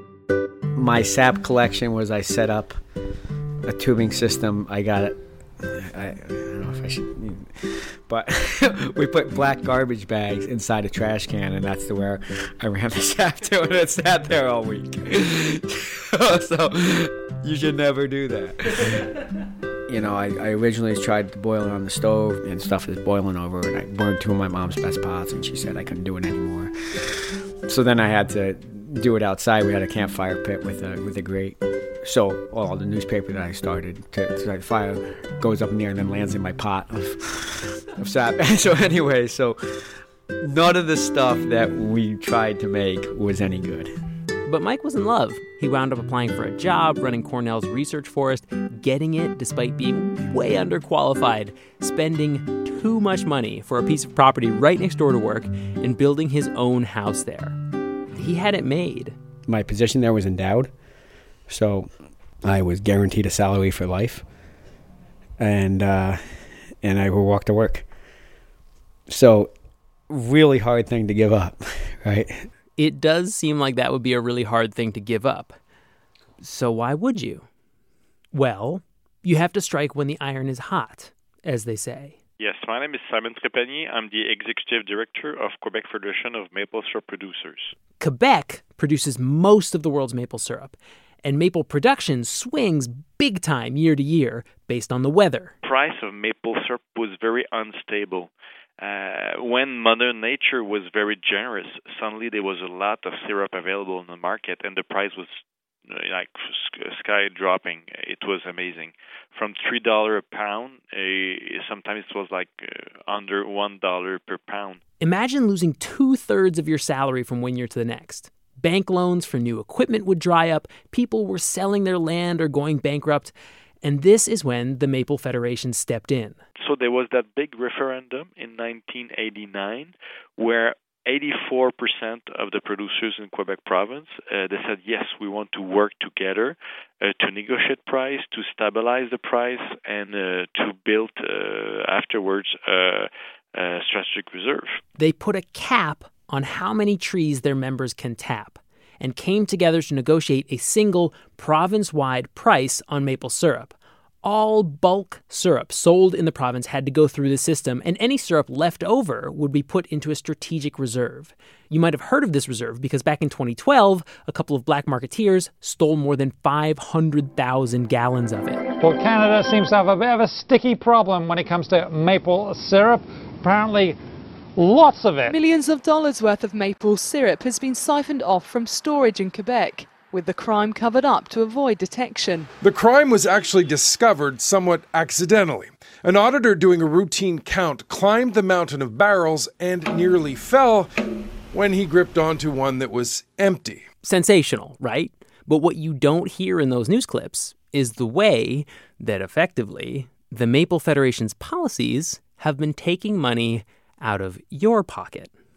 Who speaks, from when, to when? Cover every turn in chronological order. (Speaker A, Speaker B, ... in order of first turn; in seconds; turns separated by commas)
Speaker A: 0.7-2.8, Speaker A: 3.6-19.3, Speaker A: 19.9-43.9, Speaker B: 44.5-57.6, Speaker B: 58.1-59.2, Speaker A: 59.5-60.7, Speaker A: 61.5-61.9, Speaker A: 62.4-64.2, Speaker A: 65.4-67.9, Speaker A: 69.1-69.5, Speaker A: 70.1-72.5, Speaker B: 72.8-75.6, Speaker B: 76.4-77.5, Speaker B: 78.3-82.2, Speaker C: 82.4-87.7, Speaker B: 88.0-95.5, Speaker C: 95.6-114.8, Speaker B: 115.0-126.4, Speaker C: 126.6-144.8, Speaker B: 145.0-168.6, Speaker D: 168.8-174.0, Speaker D: 174.6-175.4, Speaker E: 175.2-182.5, Speaker F: 182.6-190.9, Speaker F: 191.5-193.8, Speaker B: 194.0-205.3